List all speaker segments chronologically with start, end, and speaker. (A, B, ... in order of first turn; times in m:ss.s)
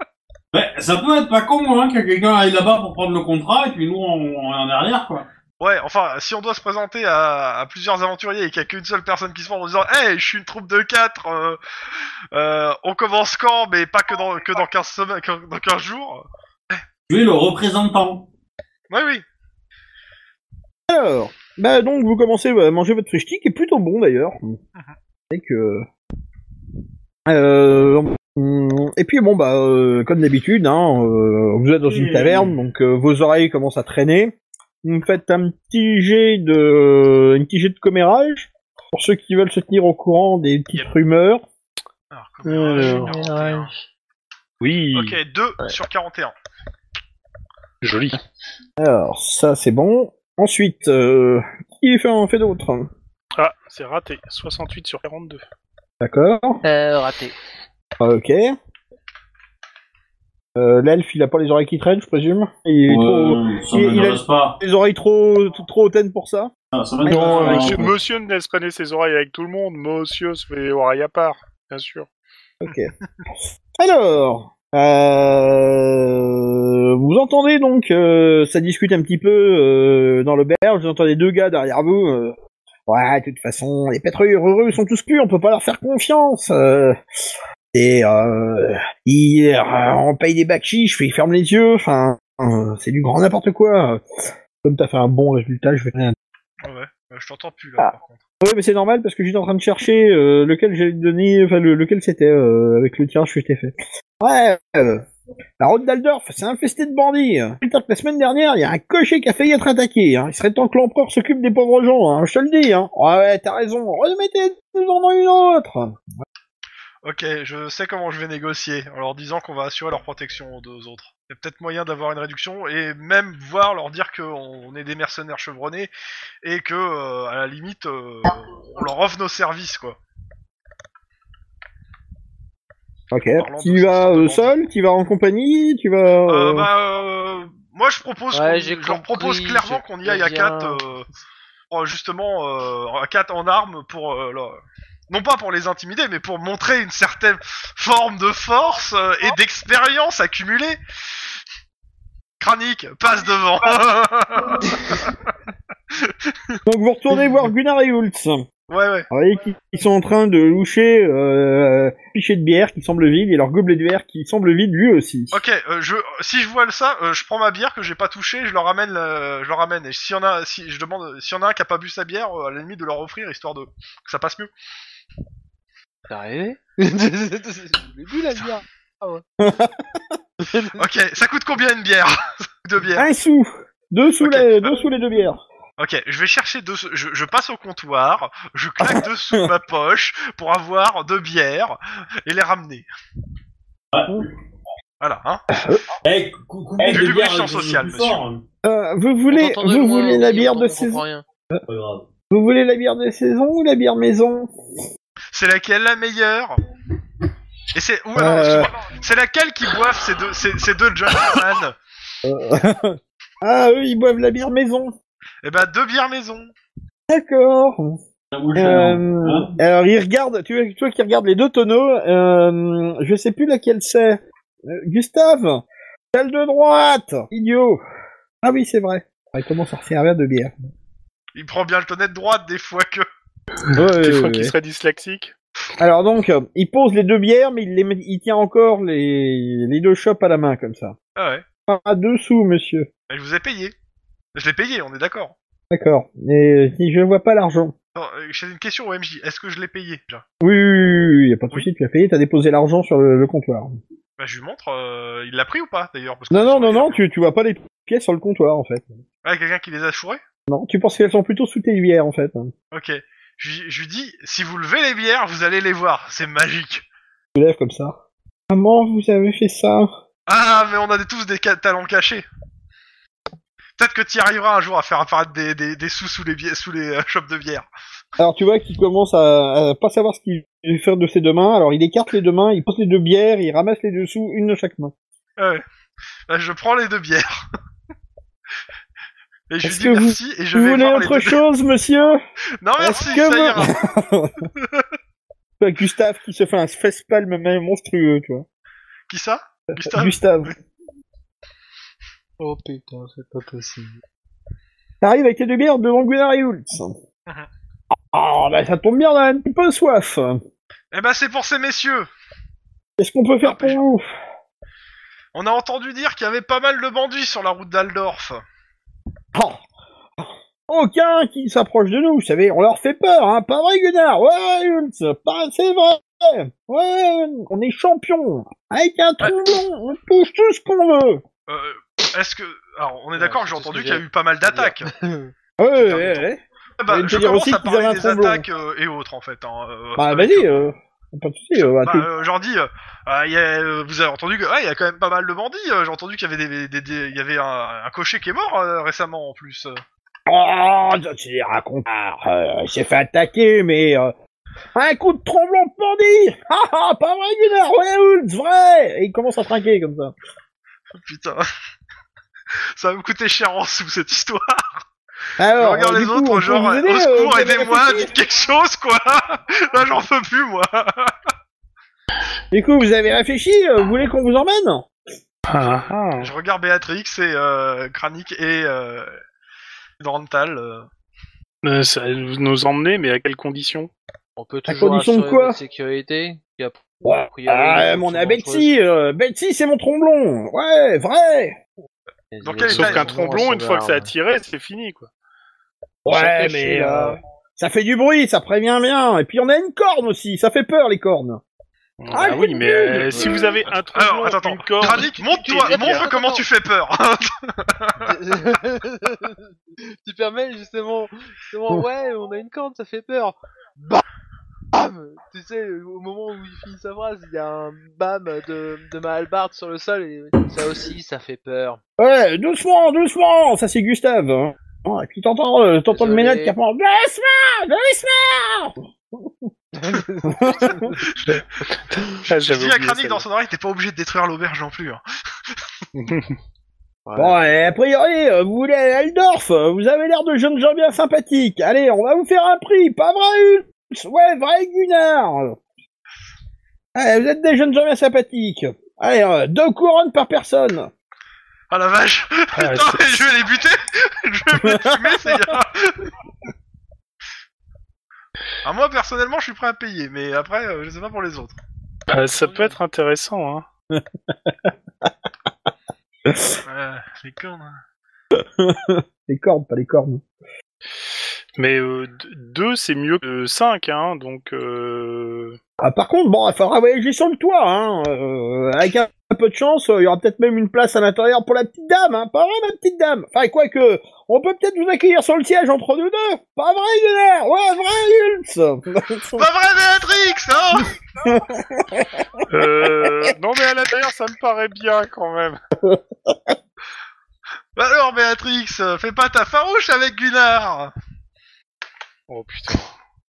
0:00.5-0:05.2 A
0:05.6-0:16.8 B
0:17.1-0:18.3 A
0:18.9-0:19.2 B
0:20.9-0:24.6 C
0:25.3-0:25.9 C
0:27.2-0:41.4 C
0:32.0-0:32.5 A
0:42.1-0:43.7 B
0:42.4-0:43.2 D
0:42.7-0:43.8 E
0:44.6-0:45.2 D
0:44.9-0:46.3 B
0:47.8-0:48.2 D
0:48.8-0:52.9 C
0:53.4-0:55.4 D
0:56.0-0:56.6 C
0:56.6-0:57.3 E
0:58.0-0:58.5 C
1:00.6-1:06.5 C
1:02.9-1:04.6 A
1:06.7-1:07.9 A
1:07.0-1:08.0 C
1:07.1-1:12.1 D
1:12.6-1:12.9 C
1:13.8-1:22.3 C
1:22.9-1:27.0 C
1:27.7-1:36.1 C
1:36.6-1:38.2 B
1:37.8-1:45.0 C
1:45.6-1:56.1 C
1:57.0-2:05.9 B
2:06.4-2:10.0 B
2:13.1-2:16.7 C
2:13.3-2:14.5 B
2:16.3-2:21.0 B
2:18.3-2:20.8 E
2:21.7-2:30.8 B
2:32.4-2:35.1 B
2:35.9-2:36.6 B
2:36.6-2:38.4 C
2:38.7-2:39.1 B
2:39.1-2:45.4 C
2:45.3-2:54.5 B
2:56.1-2:59.2 E
2:59.4-3:00.2 C
3:00.4-3:00.8 E
3:00.8-3:03.1 B
3:02.9-3:05.4 C
3:04.2-3:04.7 B
3:05.8-3:12.9 B
3:08.8-3:09.4 C
3:13.9-3:14.3 A
3:15.0-3:15.4 B
3:15.5-3:15.8 C
3:16.0-3:18.4 A
3:16.8-3:18.2 B
3:18.6-3:21.0 C
3:19.3-3:21.2 E
3:21.7-3:22.0 A
3:22.3-3:24.5 C
3:25.3-3:26.6 B
3:27.7-3:31.8 B
3:28.1-3:28.7 C
3:32.2-3:34.9 C
3:35.4-3:36.5 B
3:37.1-3:38.0 C
3:38.3-3:39.6 A
3:38.5-3:47.8 C
3:48.4-3:50.5 C
3:51.3-3:53.1 B
3:53.6-3:55.3 D
3:53.7-3:54.5 C
3:55.8-4:01.0 C
4:01.2-4:01.4 B
4:01.7-4:02.9 C
4:03.1-4:03.7 B
4:04.3-4:05.3 B
4:05.7-4:07.7 C
4:07.9-4:10.2 B
4:10.4-4:13.7 C
4:14.2-4:17.0 B
4:16.3-4:18.9 C
4:19.2-4:20.2 B
4:20.5-4:22.5 C
4:22.7-4:26.8 B
4:27.3-4:27.9 C
4:28.5-4:29.9 C
4:30.3-4:32.3 B
4:33.8-4:37.7 B
4:38.2-4:44.9 C
4:45.4-4:45.6 B
4:46.3-4:47.4 B
4:49.5-4:51.4 B
4:49.6-4:52.2 C
4:52.6-4:53.8 B
4:52.8-4:54.5 C
4:54.6-4:54.8 B
4:55.6-4:58.4 C
4:59.1-5:00.5 B
4:59.8-5:00.5 C
5:02.4-5:04.0 E
5:05.0-5:06.9 C
5:08.1-5:10.4 C
5:10.9-5:12.1 B
5:13.0-5:14.0 C
5:13.4-5:13.8 B
5:15.3-5:18.4 B
5:19.3-5:19.6 C
5:20.2-5:31.2 C
5:31.5-5:34.9 B
5:33.2-5:35.3 E
5:35.6-5:38.4 C
5:35.8-5:36.2 B
5:36.8-5:40.5 B
5:40.0-5:42.1 C
5:41.6-5:49.8 B
5:50.3-5:54.1 C
5:54.7-6:00.1 C
6:01.0-6:01.4 B
6:02.7-6:04.8 B
6:05.4-6:08.1 C
6:05.6-6:11.1 B
6:12.5-6:14.9 C
6:15.5-6:16.3 D
6:16.2-6:19.2 B
6:20.0-6:20.9 B
6:21.6-6:23.9 D
6:24.4-6:28.7 E
6:24.7-6:25.6 C
6:27.0-6:31.6 C
6:32.3-6:34.1 E
6:32.4-6:33.4 B
6:32.7-6:35.1 D
6:36.0-6:41.4 C
6:36.1-6:37.2 E
6:42.0-6:46.1 D
6:42.1-6:43.4 C
6:43.9-6:48.1 B
6:44.8-6:46.4 E
6:48.0-6:54.0 E
6:54.7-7:01.8 E
7:02.0-7:09.5 C
7:05.9-7:06.6 E
7:09.7-7:11.1 E
7:10.2-7:10.9 C
7:11.0-7:11.4 B
7:11.9-7:13.2 D
7:12.2-7:15.0 B
7:16.0-7:16.4 D
7:17.0-7:17.4 E
7:17.2-7:25.6 C
7:26.9-7:30.9 C
7:31.7-7:36.1 B
7:32.5-7:33.2 D
7:34.6-7:35.4 C
7:38.6-7:41.6 B
7:42.1-7:43.6 D
7:42.3-7:42.8 B
7:43.9-7:45.1 C
7:46.2-7:46.6 C
7:46.6-7:47.8 B
7:48.3-7:50.2 C
7:51.6-7:55.6 D
7:55.8-8:09.5 C
8:09.4-8:10.9 B
8:10.7-8:12.4 C
8:12.5-8:15.6 D
8:15.8-8:16.6 C
8:17.8-8:20.9 B
8:22.3-8:22.9 D